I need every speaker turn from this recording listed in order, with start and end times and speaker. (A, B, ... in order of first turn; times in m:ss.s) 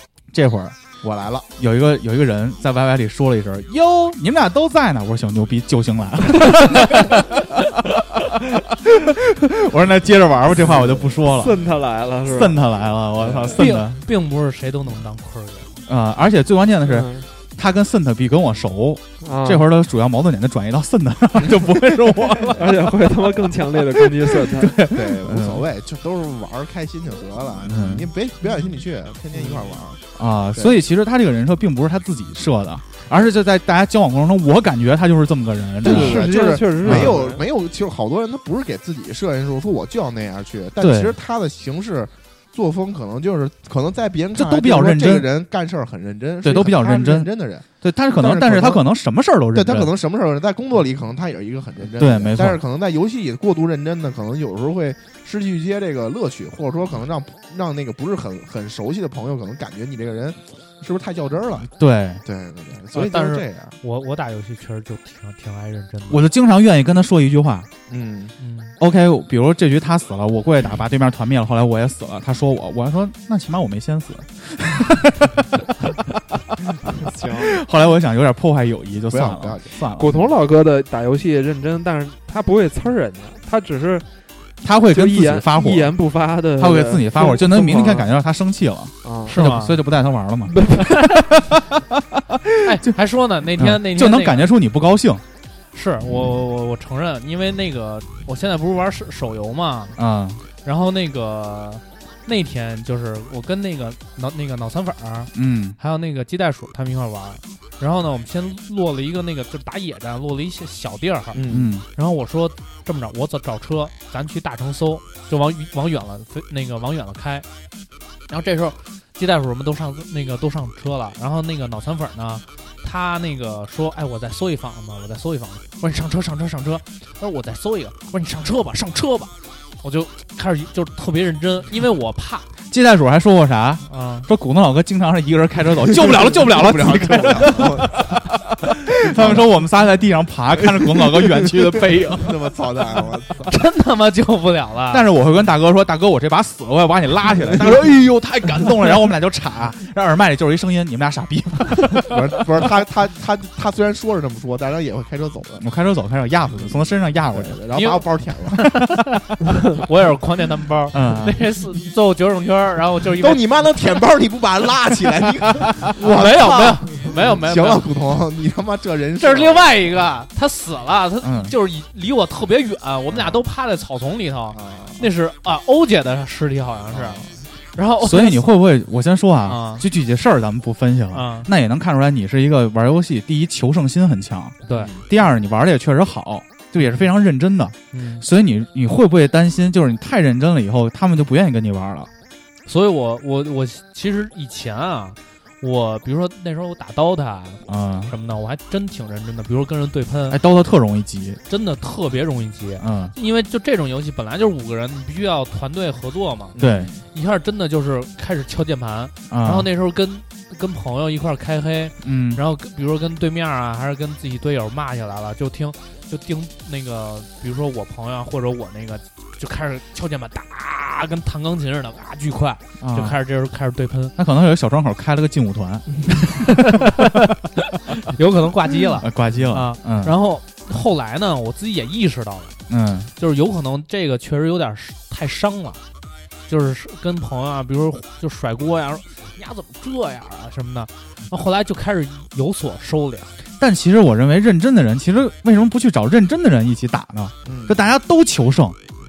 0:00.3-0:00.8 A
0:01.0-0:01.5 B
0:01.6-0:11.6 A
0:10.7-0:12.6 C
0:12.3-0:14.0 A
0:13.2-0:13.6 C
0:13.6-0:15.8 D
0:15.9-0:25.6 A
0:16.8-0:17.3 C
0:19.2-0:19.7 C
0:22.5-0:24.8 C
0:24.8-0:30.0 B
0:27.6-0:28.1 A
0:29.3-0:29.8 C
0:30.2-0:37.2 A
0:35.8-0:37.4 C
0:35.8-0:48.8 B
0:40.8-0:41.2 A
0:44.4-0:45.3 A
0:46.4-0:47.3 A
0:47.8-0:49.9 A
0:49.5-1:01.7 B
0:51.9-0:52.6 A
1:01.8-1:02.2 A
1:02.2-1:03.8 B
1:02.9-1:06.2 D
1:06.1-1:07.7 A
1:07.9-1:08.3 B
1:08.4-1:08.8 D
1:08.8-1:15.9 A
1:17.0-1:17.6 C
1:17.4-1:20.1 A
1:19.1-1:19.8 B
1:20.0-1:24.1 C
1:24.6-1:26.0 A
1:24.9-1:28.1 C
1:26.6-1:31.6 A
1:29.0-1:29.4 C
1:29.3-1:29.8 D
1:30.6-1:30.9 C
1:32.6-1:34.5 D
1:32.7-1:33.0 A
1:33.6-1:35.2 A
1:35.7-1:40.0 D
1:40.0-1:40.4 A
1:40.6-1:51.4 D
1:45.3-1:45.8 A
1:51.3-1:51.8 B
1:51.5-1:51.9 A
1:52.0-1:57.5 D
1:58.3-2:12.5 D
2:12.7-2:22.5 A
2:13.9-2:14.3 D
2:16.0-2:18.1 B
2:19.0-2:19.5 B
2:20.6-2:23.5 B
2:23.5-2:25.0 D
2:24.9-2:32.3 A
2:32.0-2:35.6 B
2:35.6-2:37.6 A
2:37.3-2:38.6 B
2:37.7-2:39.2 D
2:39.8-2:43.4 D
2:40.9-2:41.4 A
2:43.2-2:49.9 B
2:46.0-2:47.9 D
2:49.2-2:58.5 D
2:51.2-2:51.5 A
2:53.1-2:53.4 B
2:54.5-2:55.1 B
2:56.9-2:57.4 B
2:58.0-3:12.1 A
2:59.5-2:59.8 D
3:01.1-3:01.5 D
3:04.6-3:04.9 D
3:04.7-3:05.0 B
3:06.8-3:07.0 D
3:07.9-3:08.2 D
3:12.7-3:20.4 D
3:17.7-3:18.1 A
3:20.3-3:21.4 A
3:21.5-3:26.6 D
3:22.8-3:23.2 A
3:26.6-3:27.0 B
3:26.6-3:26.9 A
3:27.1-3:44.2 D
3:29.3-3:29.7 A
3:32.0-3:32.4 A
3:42.8-3:43.2 A
3:44.2-3:46.9 A
3:46.6-3:47.1 D
3:48.0-3:52.6 D
3:49.0-3:50.2 A
3:52.7-3:53.1 A
3:53.2-3:55.8 D
3:56.5-4:03.3 D
4:03.6-4:08.8 A
4:07.4-4:07.8 B